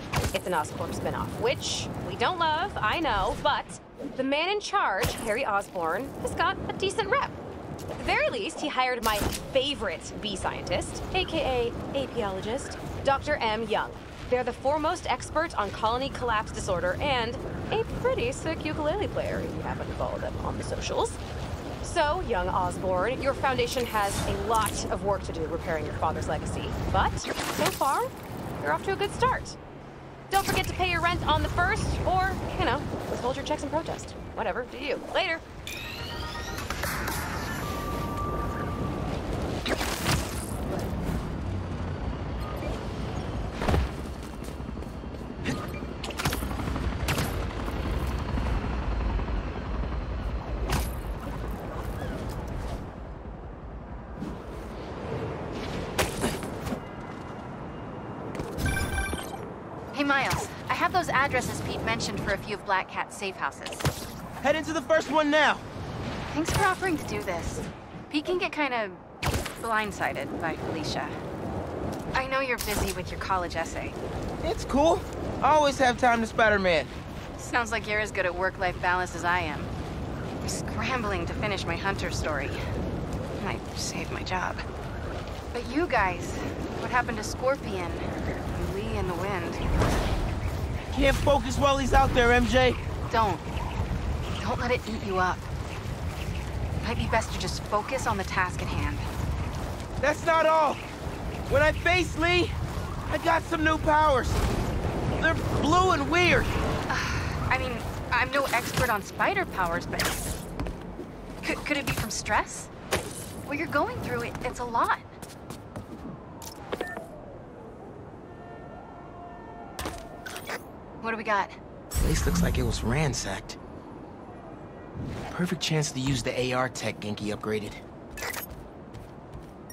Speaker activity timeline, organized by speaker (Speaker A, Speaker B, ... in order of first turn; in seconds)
Speaker A: 0.3-7.4, 8.0-21.2, 21.8-29.6, 30.3-35.4
Speaker B: 59.9-63.9, 66.3-69.0, 69.6-71.2, 72.1-74.0, 77.4-79.7, 80.4-82.6, 83.4-84.6, 85.5-89.6, 93.1-93.4, 94.4-95.5, 96.8-99.1, 106.9-110.3, 111.4-112.7, 113.5-115.0, 121.0-121.5
Speaker C: 64.4-65.6, 74.4-76.9, 90.9-92.8, 100.0-100.8, 101.5-102.5, 103.1-104.4, 105.2-106.5, 122.0-123.6, 125.3-127.8